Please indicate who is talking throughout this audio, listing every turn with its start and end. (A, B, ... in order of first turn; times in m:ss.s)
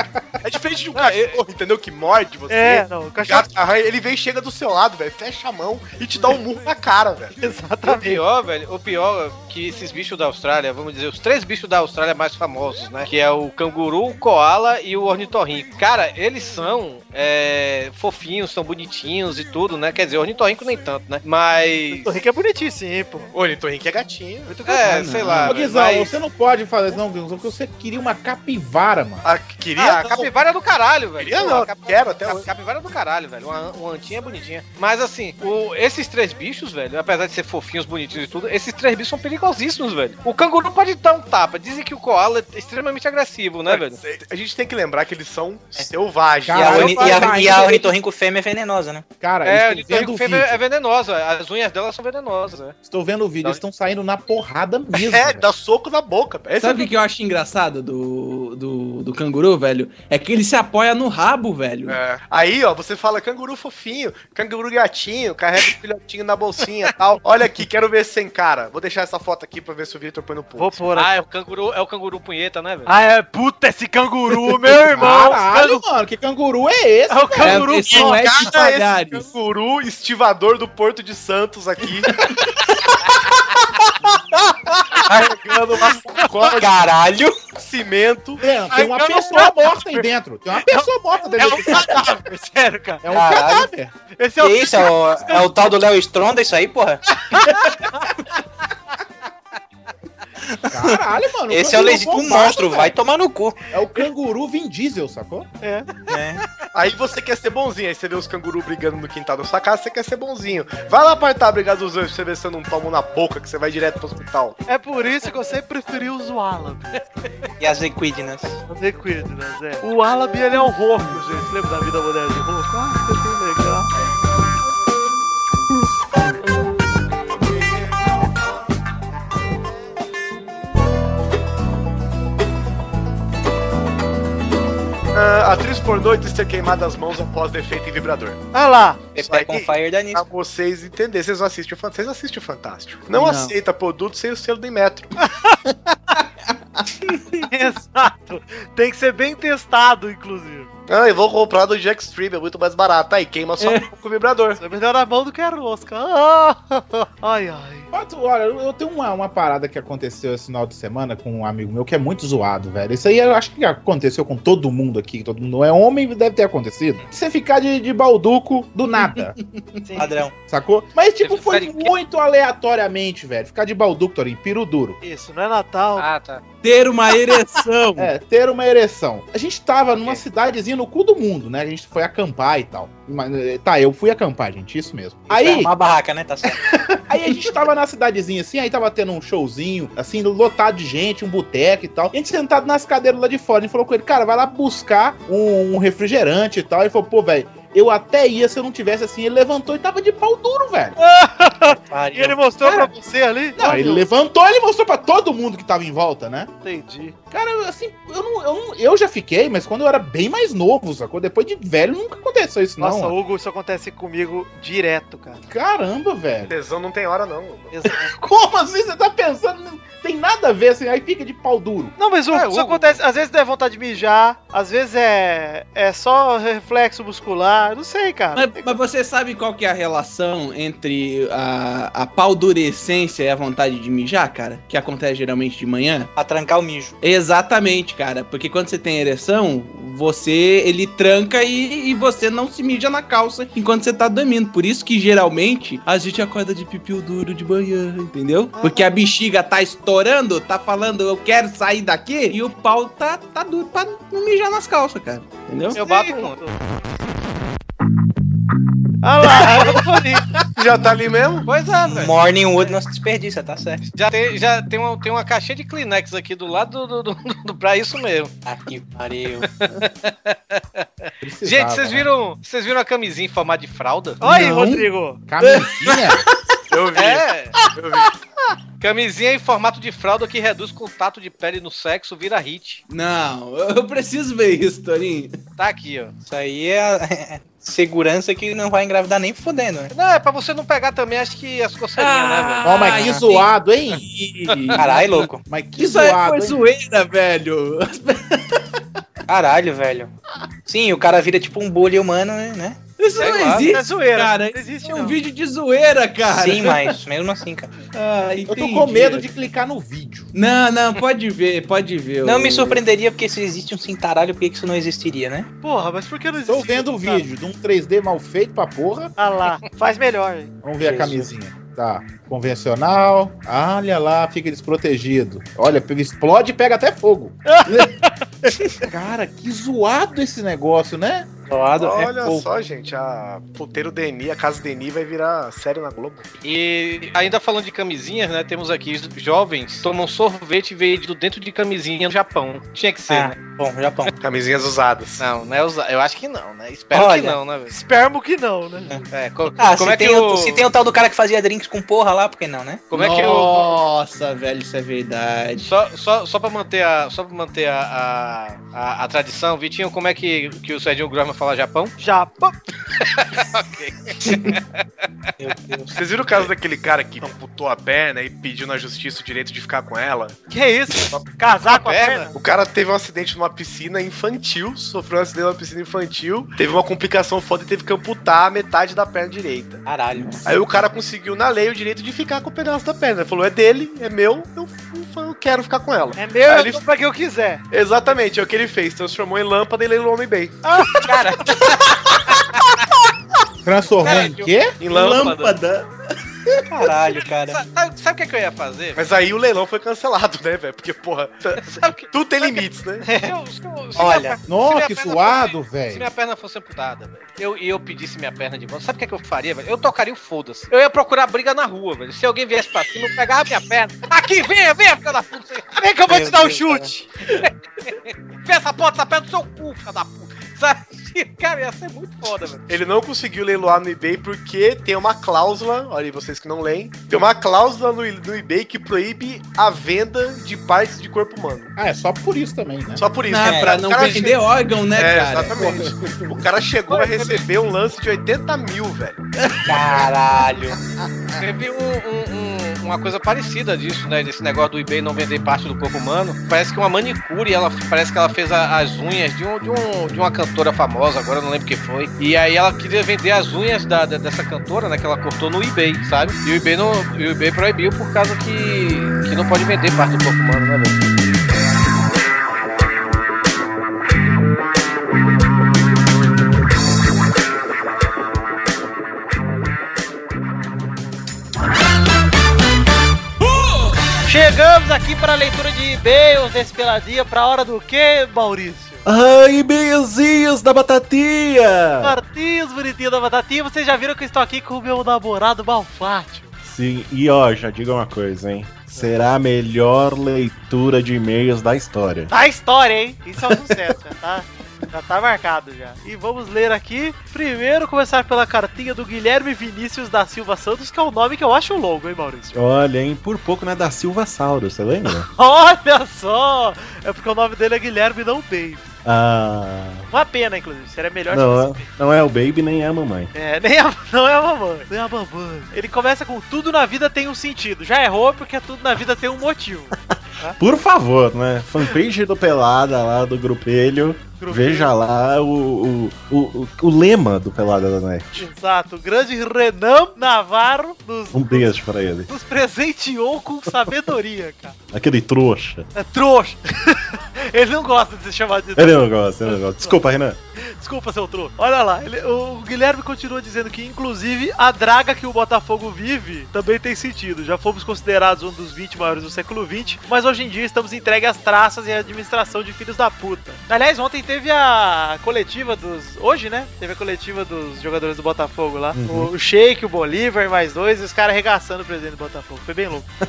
0:00.4-0:07.4 A
0:01.0-0:01.3 B
0:02.5-0:03.5 C
0:07.4-0:08.2 C
0:07.9-0:22.1 B
0:21.9-0:23.3 C
0:23.3-0:24.6 A
0:24.5-0:24.8 C
0:24.6-0:26.1 B
0:24.8-0:25.6 D
0:25.5-0:29.2 E
0:29.2-0:30.3 A
0:29.8-0:44.0 B
0:31.2-0:32.4 A
0:43.7-0:47.3 A
0:46.5-0:47.9 E
0:46.5-0:49.1 F
0:49.2-0:50.6 E
0:49.4-0:52.8 B
0:52.8-0:55.5 E
0:55.0-0:56.9 A
0:56.6-1:02.0 D
1:01.9-1:10.8 A
1:10.6-1:11.1 C
1:10.9-1:12.9 B
1:12.9-1:15.8 C
1:14.9-1:17.8 E
1:17.1-1:18.6 C
1:17.4-1:19.3 D
1:17.9-1:22.3 A
1:25.0-1:26.8 A
1:25.0-1:27.4 F
1:26.0-1:26.3 C
1:27.6-1:28.4 A
1:28.4-1:32.1 E
1:28.7-1:33.0 C
1:33.0-1:33.9 E
1:33.1-1:33.7 F
1:34.2-1:35.7 C
1:34.4-1:37.0 F
1:37.2-1:38.1 C
1:40.6-1:43.6 F
1:40.7-1:43.0 E
1:43.7-1:45.5 E
1:45.6-1:46.0 C
1:46.1-1:46.4 F
1:46.7-1:54.6 A
1:54.7-1:57.0 C
1:57.6-1:58.6 F
1:58.7-2:03.9 C
2:15.1-2:18.4 A
2:18.5-2:19.1 C
2:19.1-2:20.3 F
2:19.2-2:25.1 A
2:23.1-2:23.6 D
2:25.2-2:25.6 C
2:27.4-2:30.7 C
2:30.9-2:34.6 A
2:33.6-2:33.9 D
2:34.6-2:37.9 C
2:37.9-2:49.4 E
2:49.0-2:49.8 D
2:49.8-2:50.2 C
2:50.0-2:50.3 F
2:50.5-2:55.0 E
2:51.2-2:51.9 B
2:55.0-2:56.1 C
2:56.0-2:56.4 B
2:56.6-2:58.1 D
2:58.0-3:05.7 E
3:05.3-3:06.6 F
3:07.1-3:21.0 E
3:21.0-3:24.0 C
3:21.8-3:22.4 F
3:23.6-3:26.5 E
3:26.6-3:27.2 C
3:27.3-3:33.2 E
3:32.8-3:35.4 C
3:35.5-3:36.5 E
3:36.5-3:37.7 A
3:37.7-3:38.1 C
3:38.0-3:41.9 E
3:42.0-3:48.8 C
3:42.3-3:43.0 B
3:48.3-3:56.1 D
3:56.2-3:57.0 F
3:57.0-4:15.8 D
4:08.6-4:08.9 C
4:15.7-4:16.6 C
4:15.8-4:16.4 B
4:19.0-4:20.2 C
4:20.6-4:21.5 A
4:21.5-4:22.8 B
4:21.8-4:23.8 F
4:23.9-4:28.3 B
4:28.5-4:29.5 F
4:29.5-4:34.2 B
4:31.2-4:32.1 E
4:34.2-4:35.2 C
4:34.2-4:34.9 D
4:35.3-4:36.2 E
4:35.4-4:36.2 D
4:36.7-4:38.1 A
4:36.9-4:37.6 B
4:38.8-4:42.8 B
4:42.9-4:45.4 D
4:45.6-4:46.1 B
4:46.2-4:49.9 F
4:49.9-4:53.0 B
4:52.0-4:53.5 D
4:52.6-4:54.1 E
4:52.9-4:53.2 F
4:54.0-4:58.8 D
4:54.5-4:54.8 B
4:54.8-4:55.4 F
4:55.4-4:56.6 E
4:59.3-5:00.1 F
5:00.6-5:02.8 F
5:03.0-5:07.0 D
5:03.2-5:03.7 B
5:03.5-5:05.2 C
5:06.2-5:07.7 F
5:07.9-5:09.3 D
5:08.5-5:10.3 E
5:10.3-5:12.8 D
5:12.2-5:15.5 F
5:15.6-5:17.2 C
5:16.5-5:19.1 E
5:19.2-5:20.5 C
5:20.6-5:27.9 E
5:20.8-5:21.3 F
5:27.5-5:28.1 C
5:28.8-5:31.3 E
5:31.5-5:32.5 F
5:31.8-5:36.3 A
5:36.4-5:43.4 B
5:43.1-5:44.1 F
5:44.2-5:45.2 A
5:45.2-5:47.7 B
5:46.9-5:47.4 F
5:47.7-5:49.0 C
5:49.1-5:50.7 B
5:49.6-5:52.9 F
5:52.9-5:53.8 B
5:52.9-5:55.7 D
5:55.6-6:01.9 B
6:02.0-6:02.6 C
6:03.0-6:04.6 B
6:05.4-6:05.9 F
6:05.9-6:10.4 A
6:10.5-6:12.3 C
6:11.7-6:12.3 B
6:12.3-6:19.8 A
6:19.8-6:20.5 F
6:20.4-6:26.8 A
6:26.2-6:27.6 C
6:27.7-6:30.6 A
6:30.6-6:31.6 C
6:33.6-6:34.8 E
6:34.0-6:34.5 B
6:34.8-6:35.5 A
6:34.9-6:35.9 D
6:35.0-6:35.5 B
6:36.7-6:37.6 F
6:36.9-6:39.0 B
6:39.0-6:43.1 A
6:41.6-6:55.7 B
6:43.9-6:44.4 F
6:44.5-6:46.1 E
6:55.8-6:57.1 C
6:56.1-6:56.9 F
6:57.4-7:02.6 B
7:02.7-7:11.7 A
7:11.8-7:13.0 E
7:13.0-7:14.4 A
7:13.3-7:16.0 D
7:13.4-7:13.8 F
7:14.9-7:19.2 A
7:19.6-7:20.8 F
7:21.4-7:41.0 B
7:54.2-7:59.0 C
7:59.0-8:02.2 G
8:02.0-8:06.6 C
8:06.6-8:12.3 G
8:12.3-8:22.6 C
8:22.5-8:25.3 G
8:25.1-8:28.9 C
8:29.0-8:30.1 G
8:30.1-8:31.9 C
8:31.3-8:33.3 G
8:33.3-8:40.6 C
8:40.6-8:48.5 G
8:44.4-8:44.9 C
8:48.3-8:51.7 C
8:51.3-8:52.3 G
8:52.3-8:54.8 C
8:54.9-8:55.9 G
8:55.9-9:00.0 C
8:58.8-9:00.4 G
9:00.6-9:23.1 C
9:18.9-9:19.3 G